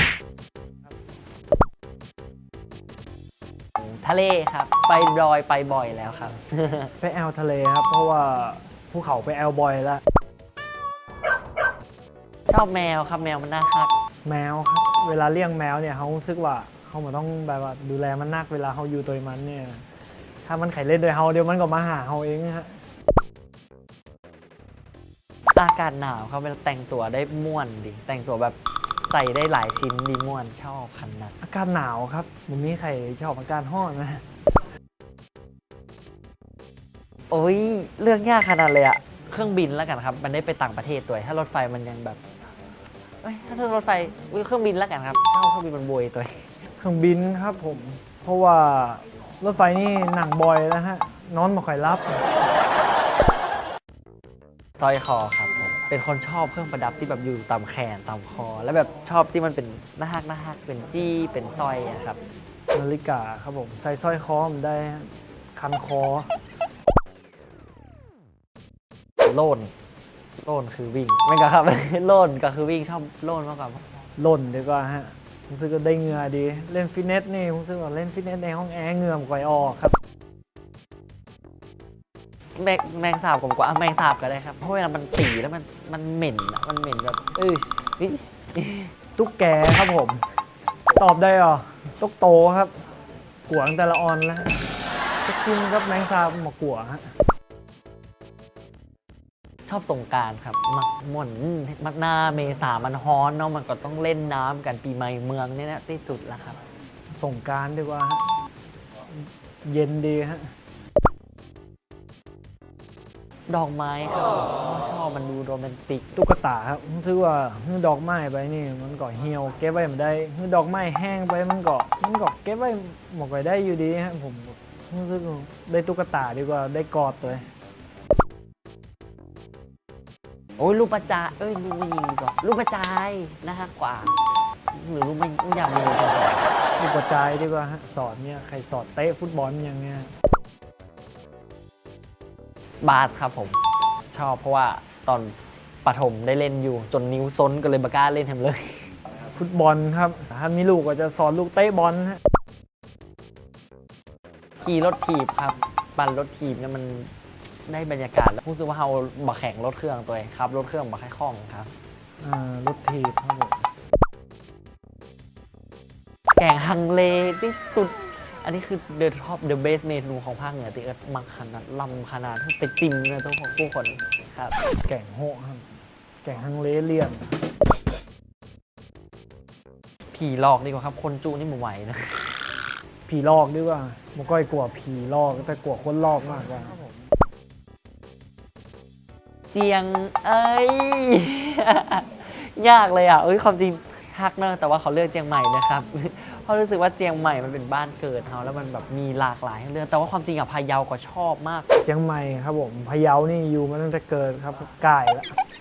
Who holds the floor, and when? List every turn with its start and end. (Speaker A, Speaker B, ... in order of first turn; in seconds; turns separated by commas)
Speaker A: 3.8-6.9, Speaker B: 7.0-10.0, Speaker A: 12.5-13.9, Speaker B: 14.2-19.9, Speaker B: 20.4-22.8, Speaker A: 25.5-28.6, Speaker A: 29.1-31.3, Speaker B: 31.4-34.2, Speaker A: 37.3-42.2, Speaker A: 43.2-46.5, Speaker B: 46.8-52.2, Speaker A: 54.8-62.2, Speaker B: 62.7-66.3, Speaker A: 69.2-69.7, Speaker A: 70.4-73.8, Speaker B: 74.2-80.0, Speaker A: 82.5-88.9, Speaker B: 89.2-90.2, Speaker B: 91.0-92.7, Speaker B: 93.5-94.6, Speaker B: 95.2-97.1, Speaker A: 99.7-106.6, Speaker B: 107.1-108.2, Speaker B: 109.1-110.5, Speaker A: 113.5-116.1, Speaker B: 116.2-127.5, Speaker A: 130.6-134.2, Speaker A: 134.7-136.5, Speaker B: 136.8-140.1, Speaker A: 142.8-143.6, Speaker A: 144.1-148.8, Speaker B: 149.3-152.2, Speaker A: 154.6-157.1, Speaker A: 157.7-161.7, Speaker B: 162.2-163.7, Speaker A: 166.4-174.6, Speaker B: 174.9-177.3, Speaker A: 180.1-182.4, Speaker B: 183.1-186.8, Speaker A: 189.5-201.7, Speaker B: 201.8-205.4